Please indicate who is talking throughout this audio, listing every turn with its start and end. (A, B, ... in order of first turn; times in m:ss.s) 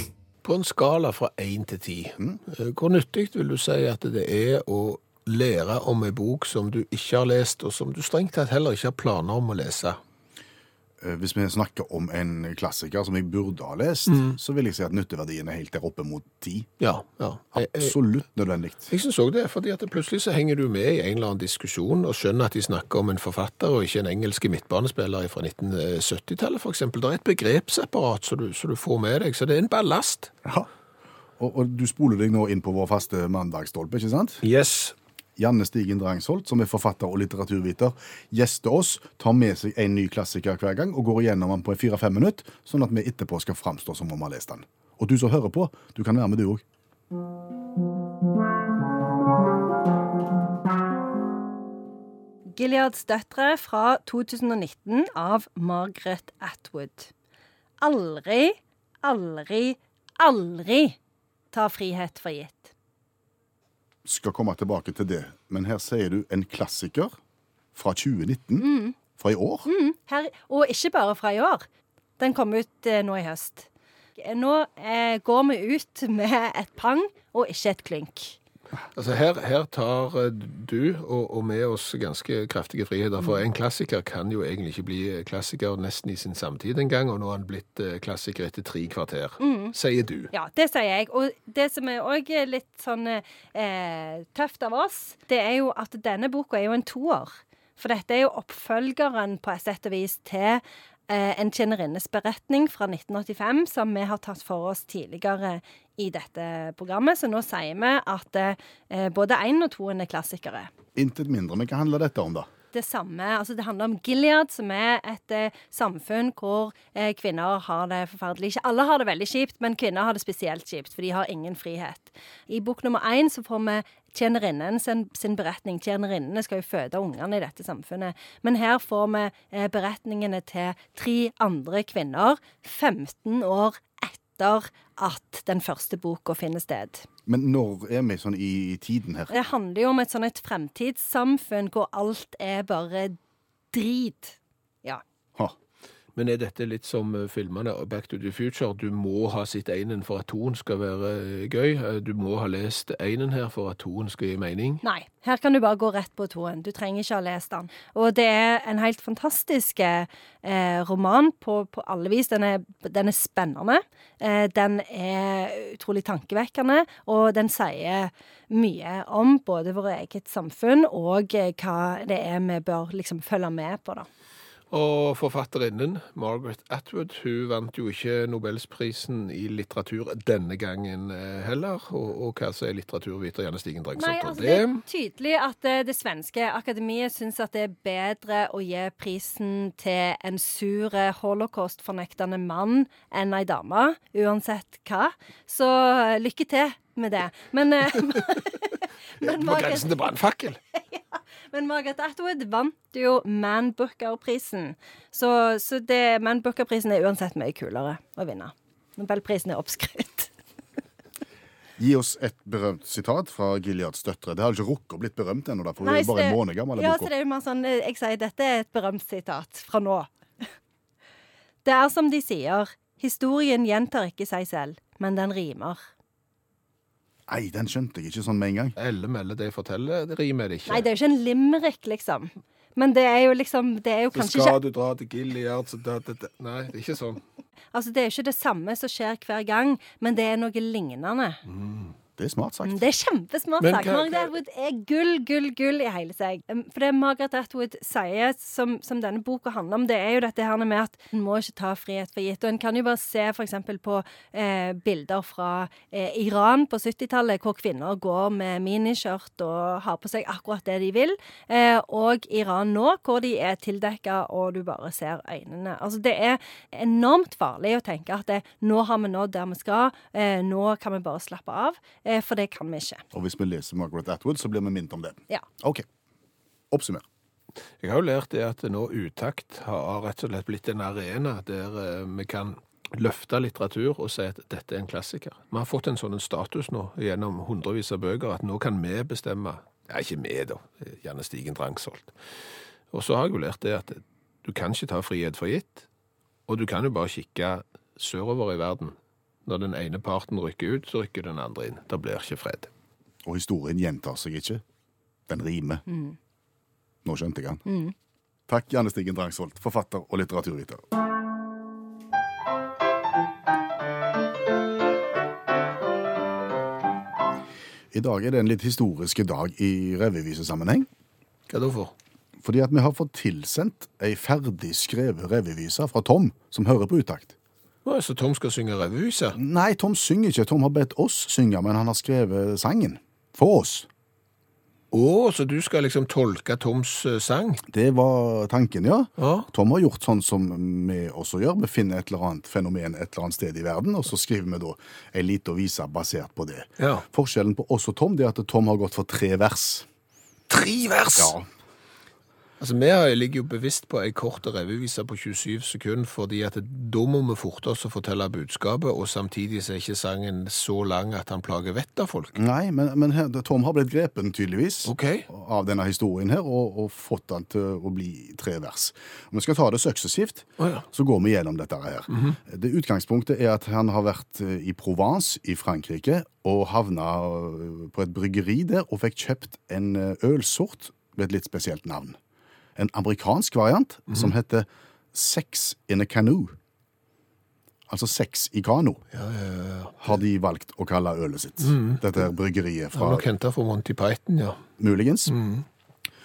0:00.4-0:10.0 A
0:11.0-0:16.7 B
0:14.1-0:14.4 A
0:16.8-0:18.0 A
0:17.6-0:18.9 B
0:18.9-0:30.3 A
0:31.4-0:34.4 B
0:34.4-0:35.0 A
0:35.4-0:46.6 B
0:52.5-0:57.1 C
0:57.8-1:01.0 C
1:01.5-1:02.7 C
1:04.0-1:07.1 B
1:07.7-1:09.7 B
1:08.6-1:09.0 C
1:09.7-1:11.7 C
1:12.2-1:18.4 C
1:19.0-1:30.3 A
1:29.4-1:29.8 C
1:30.3-1:50.7 C
1:51.0-1:52.5 B
1:52.7-2:17.1 C
2:17.3-2:19.4 B
2:19.3-2:23.2 C
2:23.7-2:25.0 C
2:26.2-2:34.8 A
2:34.8-2:54.1 C
2:54.7-3:04.8 A
3:04.0-3:20.0 C
3:19.2-3:20.6 A
3:20.7-3:30.3 C
3:31.8-3:37.1 B
3:35.8-3:40.1 C
3:41.6-3:45.8 C
3:47.3-3:48.8 B
3:48.8-3:50.9 A
3:50.7-3:54.6 C
3:54.1-3:57.2 A
3:57.7-4:01.4 C
4:01.5-4:01.9 A
4:02.2-4:02.8 B
4:02.6-4:33.0 C
4:03.6-4:04.3 A
4:33.1-4:35.9 B
4:36.7-4:37.0 B
4:37.8-4:52.1 A
4:52.9-4:55.9 A
4:56.5-5:02.7 A
5:03.2-5:04.6 B
5:05.3-5:05.8 B
5:05.9-5:06.2 C
5:07.0-5:07.6 B
5:07.7-5:07.9 C
5:08.5-5:10.8 B
5:17.9-5:20.9 B
5:21.5-5:21.9 A
5:22.4-5:27.3 B
5:27.8-5:29.4 A
5:29.4-5:33.9 B
5:34.9-5:37.6 A
5:37.7-5:49.9 B
5:39.2-5:39.5 A
5:46.8-5:47.0 A
5:50.5-5:51.3 A
5:51.2-5:51.5 B
5:52.6-6:02.4 A
6:02.4-6:22.2 B
6:04.8-6:05.3 A
6:10.6-6:10.8 A
6:12.1-6:12.4 A
6:22.8-6:26.6 B
6:27.9-6:29.0 B
6:29.1-6:30.2 A
6:30.0-6:33.2 B
6:31.6-6:32.0 A
6:32.9-6:34.6 A
6:34.8-6:35.4 B
6:35.3-6:35.6 A